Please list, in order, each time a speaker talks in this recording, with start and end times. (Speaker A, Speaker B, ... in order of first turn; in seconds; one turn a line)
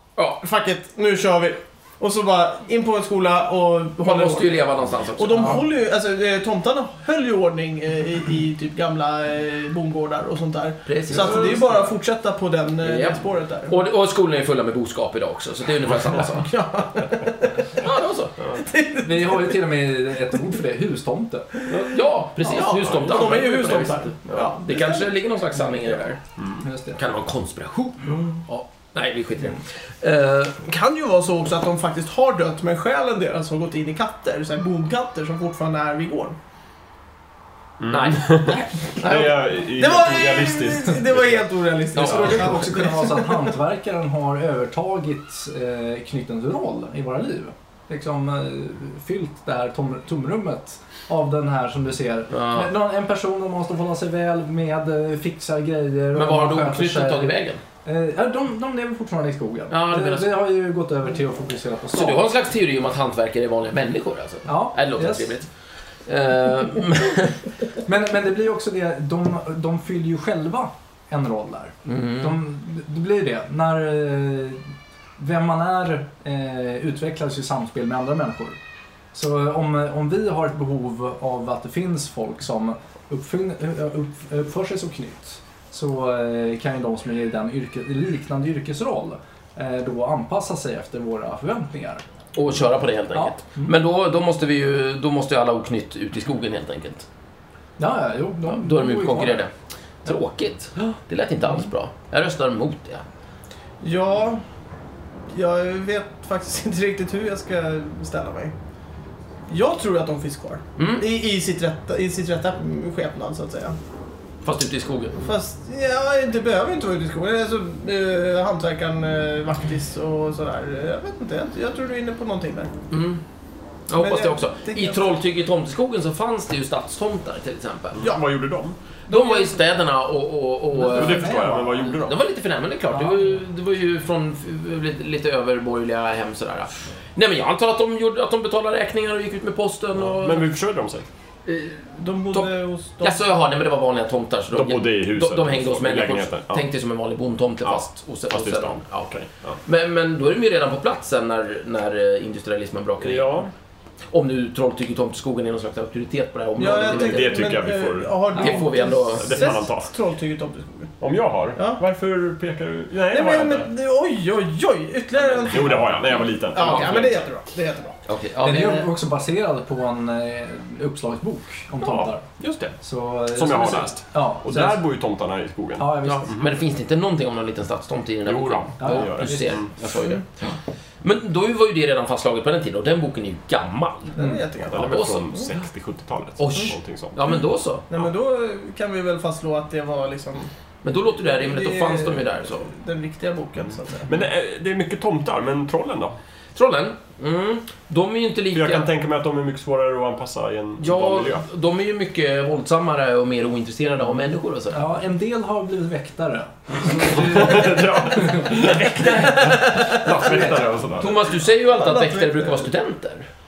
Speaker A: 0.4-13.8
Speaker B: 4.0-5.6
Speaker B: 10.8-11.6
Speaker B: 12.8-16.5
Speaker A: 16.1-17.7
Speaker B: 17.8-18.4
Speaker A: 18.5-19.6
Speaker C: 19.0-21.5
Speaker B: 21.7-26.2
Speaker A: 22.4-25.1
Speaker D: 22.7-24.4
Speaker D: 26.4-26.6
Speaker C: 26.6-27.0
Speaker B: 26.9-28.2
Speaker B: 28.9-30.6
Speaker A: 30.6-36.4
Speaker D: 37.8-41.5
Speaker B: 37.9-38.5
Speaker A: 39.0-43.5
Speaker B: 41.9-42.5
Speaker C: 41.9-62.3
Speaker B: 52.3-52.7
Speaker B: 56.1-57.6
Speaker B: 59.7-60.4
Speaker B: 61.9-65.5
Speaker C: 64.5-65.3
Speaker B: 66.0-67.4
Speaker C: 67.8-78.6
Speaker B: 71.8-72.4
Speaker C: 79.1-92.0
Speaker B: 92.3-97.0
Speaker C: 93.1-93.7
Speaker C: 97.8-99.5
Speaker B: 98.5-99.5
Speaker B: 100.0-103.0
Speaker A: 103.8-104.4
Speaker A: 105.3-108.5
Speaker A: 109.5-113.8
Speaker B: 110.8-111.0
Speaker B: 114.4-115.2
Speaker A: 115.2-122.7
Speaker B: 122.9-123.2
Speaker B: 123.9-128.1
Speaker A: 124.0-125.1
Speaker D: 127.9-128.8
Speaker B: 129.1-140.5
Speaker A: 129.1-129.6
Speaker C: 130.7-131.8
Speaker D: 130.8-132.2
Speaker C: 132.9-133.3
Speaker D: 140.0-141.1
Speaker B: 141.4-142.5
Speaker A: 142.0-143.3
Speaker B: 143.0-153.4
Speaker D: 144.5-146.7
Speaker D: 147.6-149.6
Speaker D: 153.0-153.5
Speaker B: 154.1-157.5
Speaker A: 156.6-160.9
Speaker D: 156.6-158.2
Speaker C: 158.3-158.6
Speaker B: 158.3-159.6
Speaker D: 159.2-159.9
Speaker D: 161.0-163.7
Speaker A: 161.6-161.8
Speaker A: 163.1-168.0
Speaker B: 165.2-165.8
Speaker D: 165.4-167.2
Speaker B: 166.6-166.9
Speaker B: 168.1-168.9
Speaker C: 168.4-172.2
Speaker D: 171.8-172.7
Speaker C: 172.8-174.8
Speaker D: 173.3-176.5
Speaker C: 175.8-176.3
Speaker B: 176.0-184.1
Speaker D: 178.2-179.7
Speaker C: 178.8-179.6
Speaker A: 184.1-185.2
Speaker C: 184.2-184.4
Speaker D: 184.7-187.2
Speaker B: 184.8-185.4
Speaker B: 186.4-187.8
Speaker A: 187.9-190.5
Speaker B: 190.8-192.7
Speaker A: 191.2-194.1
Speaker D: 194.1-196.1
Speaker B: 196.5-198.9
Speaker D: 198.5-201.4
Speaker B: 200.8-204.8
Speaker C: 204.7-210.8
Speaker D: 206.9-211.3
Speaker A: 209.0-210.1
Speaker B: 211.0-213.3
Speaker A: 211.7-212.7